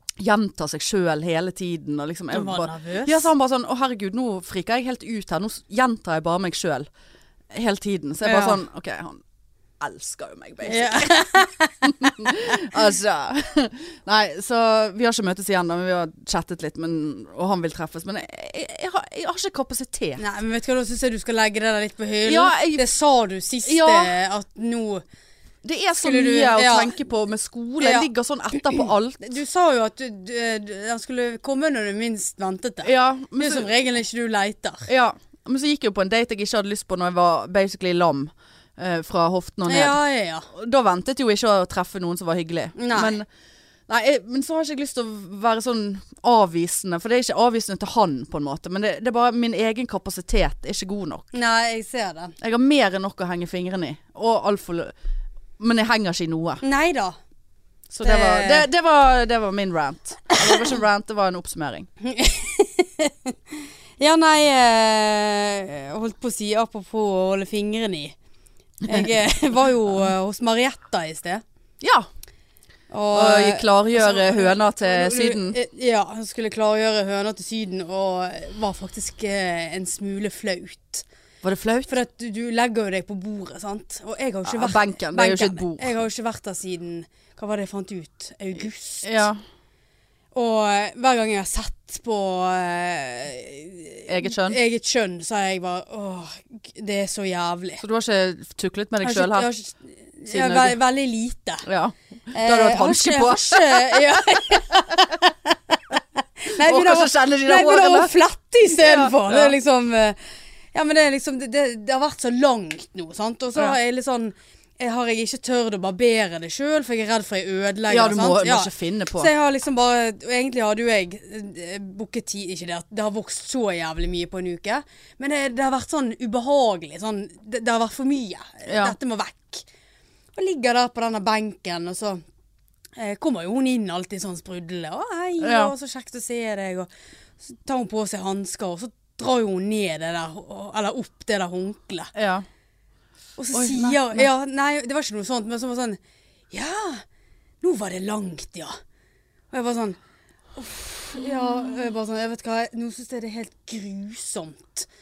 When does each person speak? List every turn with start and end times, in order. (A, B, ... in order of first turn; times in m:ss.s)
0:00.2-0:06.9 A
0:02.3-0:03.3 B
0:07.5-0:09.2 A
0:08.2-0:08.6 B
0:09.8-0:11.1 A
0:10.6-0:11.9 B
0:11.8-0:20.2 A
0:20.2-0:25.0 B
0:22.3-0:22.8 A
0:23.6-0:24.1 A
0:25.6-0:29.2 A
0:26.0-0:26.9 B
0:27.8-0:28.1 B
0:28.7-0:34.9 B
0:32.8-0:33.7 A
0:34.9-0:40.0 A
0:39.7-0:40.5 B
0:40.5-0:43.3 A
0:42.8-0:43.2 B
0:43.9-0:51.3 A
0:51.3-0:52.4 B
0:52.4-0:54.9 A
0:55.6-0:56.6 A
0:56.6-0:57.2 B
0:57.9-1:01.9 A
0:58.0-0:58.7 B
1:02.0-1:08.2 B
1:08.8-1:09.1 A
1:08.9-1:11.4 B
1:11.8-1:12.1 A
1:12.9-1:21.0 B
1:13.1-1:15.6 A
1:21.4-1:21.9 A
1:21.9-1:29.3 B
1:24.4-1:26.0 A
1:29.0-1:29.4 A
1:30.3-1:37.8 B
1:34.1-1:34.6 A
1:37.8-1:39.5 A
1:39.0-1:41.7 B
1:40.3-1:40.8 A
1:41.6-1:44.2 A
1:42.3-1:50.2 B
1:46.6-1:48.1 A
1:48.7-1:49.6 A
1:50.7-2:09.6 B
1:57.9-1:59.3 A
2:08.7-2:09.0 A
2:10.4-2:12.2 B
2:13.0-2:16.9 B
2:15.4-2:15.7 A
2:17.5-2:22.1 B
2:22.2-2:22.4 A
2:23.4-2:26.0 B
2:23.5-2:24.3 A
2:26.5-2:27.0 B
2:27.6-2:28.8 B
2:29.5-2:30.0 B
2:30.6-2:34.9 B